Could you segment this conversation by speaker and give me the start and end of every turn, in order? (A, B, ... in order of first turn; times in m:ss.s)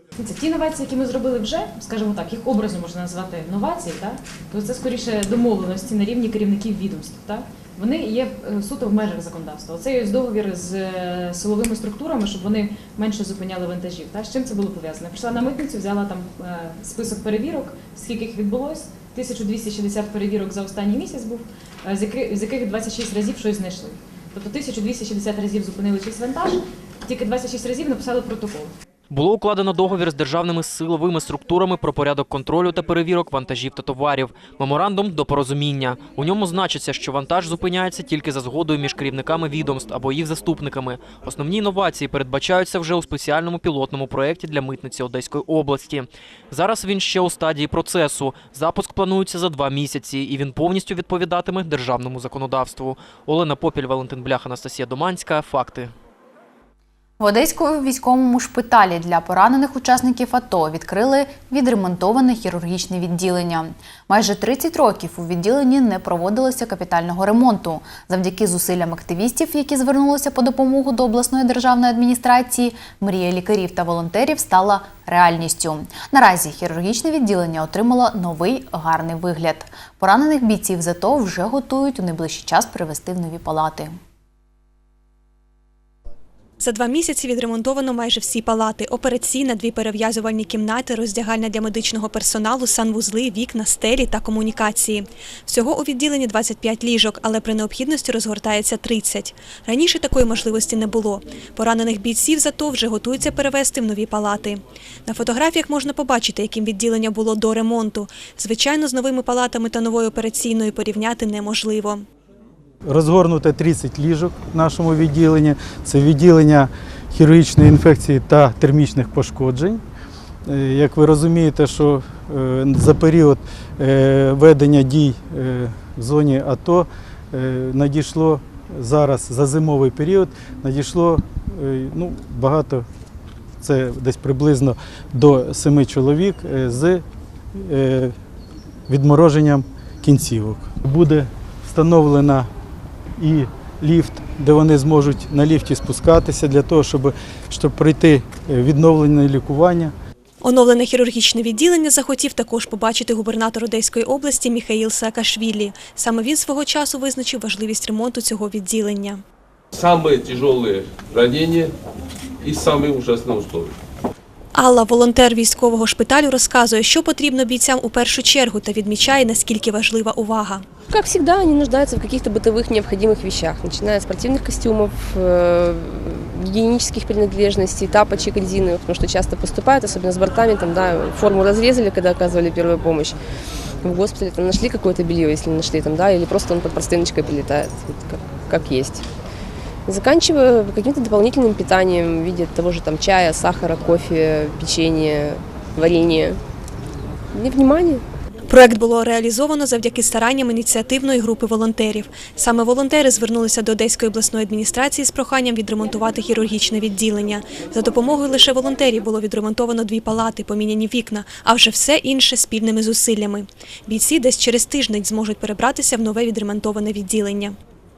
0:00.2-0:28.7 A
0:29.1-0:55.9 B
0:57.2-1:23.9 C
1:26.6-1:52.0 D
1:52.8-1:59.8 E
2:00.5-2:12.9 E
2:13.6-2:17.0 E
2:17.6-2:18.1 E
2:18.9-2:22.5 E
2:23.2-2:29.9 E
2:30.4-2:39.2 D
2:39.8-2:41.7 F
2:42.4-2:43.7 F
2:44.5-2:50.6 D
2:50.9-3:03.1 G
3:03.8-3:09.0 G
3:09.9-3:16.4 G
3:17.3-3:18.0 G
3:18.5-3:37.6 D